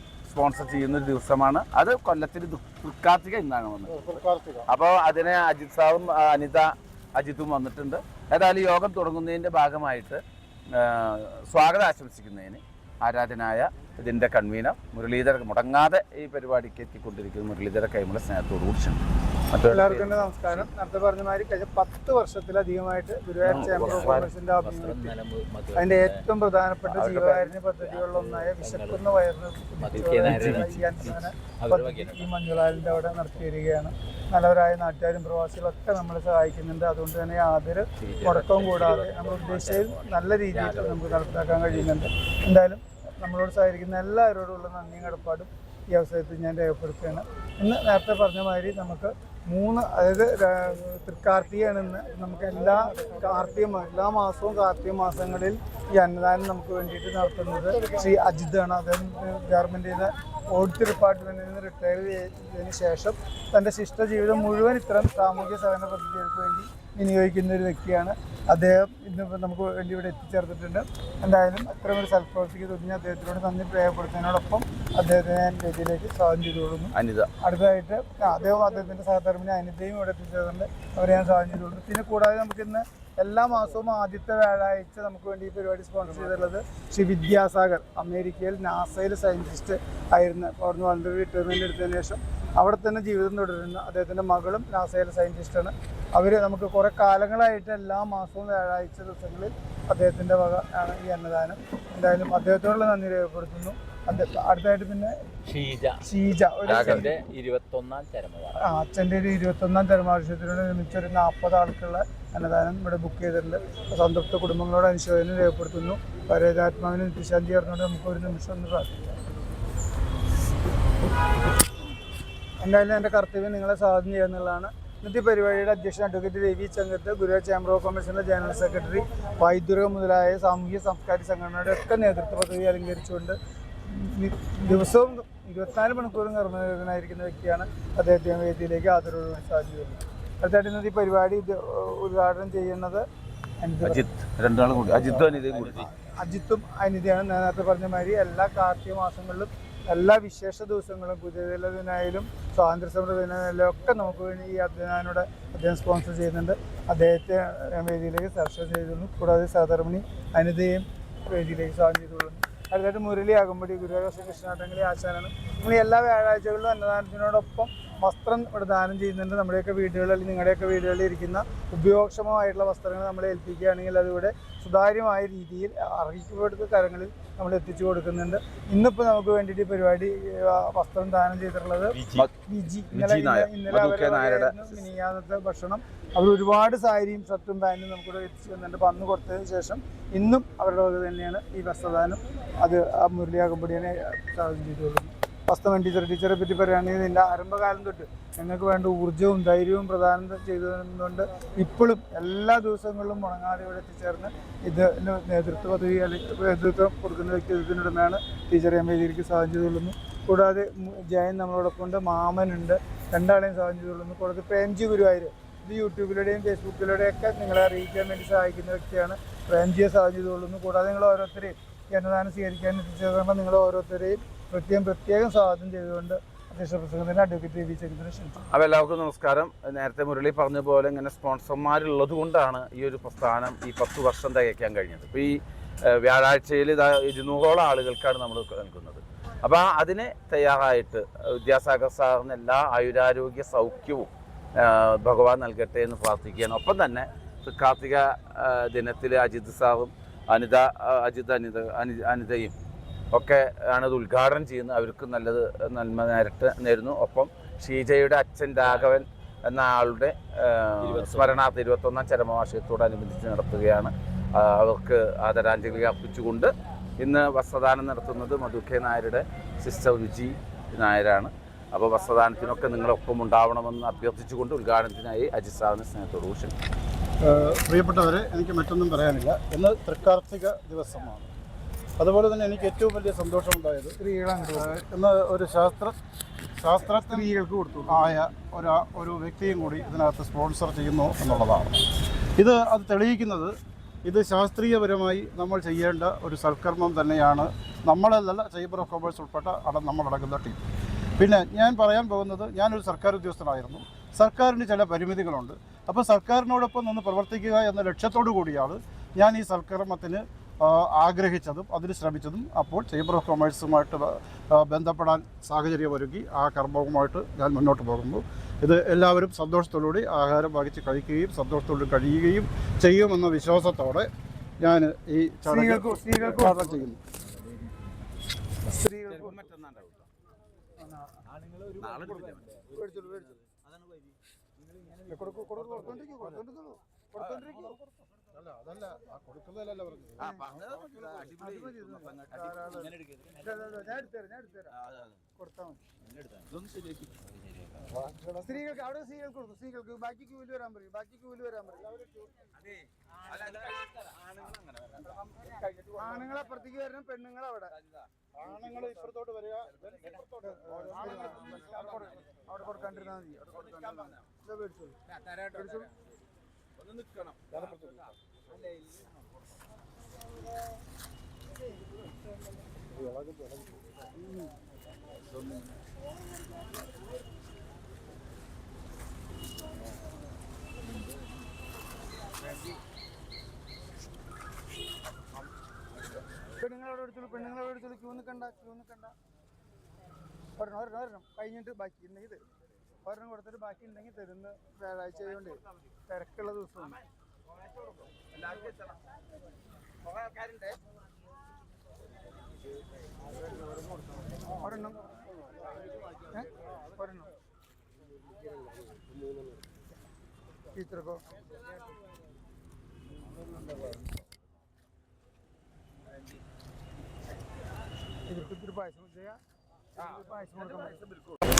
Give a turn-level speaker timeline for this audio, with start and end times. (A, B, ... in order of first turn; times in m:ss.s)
0:00.3-0:20.7 A
0:03.9-0:04.7 B
0:19.6-0:25.2 C
0:23.4-0:24.3 A
0:23.4-0:26.2 D
0:25.8-1:45.2 C
0:26.8-0:27.7 A
0:27.8-0:29.1 D
0:29.8-0:33.4 D
0:38.0-0:42.0 D
1:17.0-1:17.3 A
1:45.4-1:46.1 D
1:46.0-1:47.1 C
1:46.6-1:48.6 D
1:46.7-1:47.1 A
1:48.6-1:59.1 C
2:02.6-2:23.0 C
2:23.6-2:24.1 C
2:23.8-2:25.9 A
2:25.4-2:25.8 D
2:25.8-3:48.4 C
3:01.9-3:02.3 A
3:02.9-3:04.9 A
3:48.5-4:12.5 A
4:13.1-4:36.6 A
4:18.6-4:19.0 D
4:20.8-4:21.4 D
4:37.2-4:41.3 B
4:42.0-4:44.0 B
4:44.0-4:44.8 C
4:44.5-4:46.0 B
4:46.6-4:47.3 B
4:46.9-4:48.2 C
4:47.9-5:00.6 B
5:01.2-5:27.0 B
5:25.5-5:26.9 C
5:28.7-5:29.4 C
5:29.1-5:30.1 A
5:30.8-5:31.1 C
5:31.3-5:34.2 D
5:31.8-5:32.6 A
5:32.7-5:33.4 C
5:34.7-5:35.2 D
5:35.1-5:37.9 C
5:35.6-5:36.4 B
5:37.2-5:37.8 A
5:38.3-5:41.4 B
5:40.2-5:43.4 A
5:40.2-5:40.4 C
5:41.4-5:44.7 C
5:44.7-5:45.2 A
5:45.4-5:45.8 C
5:46.1-5:46.5 D
5:46.5-5:47.3 A
5:47.9-5:48.6 B
5:48.4-5:51.9 C
5:51.9-5:52.3 B
5:52.6-5:56.5 A
5:56.0-5:57.7 C
5:57.7-5:59.1 A
5:58.4-6:01.3 B
5:59.7-6:04.3 A
6:00.4-6:05.0 C
6:05.1-6:05.8 A
6:05.5-6:05.9 C
6:06.8-6:08.1 A
6:07.5-6:08.1 B
6:12.9-6:13.7 B
6:26.6-6:29.1 C
6:30.6-6:32.4 C
6:33.0-6:37.0 C
6:37.5-6:39.0 A
6:40.0-6:40.8 A
6:44.6-6:45.0 C
6:46.3-6:47.3 C
6:50.7-6:51.3 C
6:58.3-6:59.4 C
7:00.0-7:01.4 A
7:00.0-7:01.0 C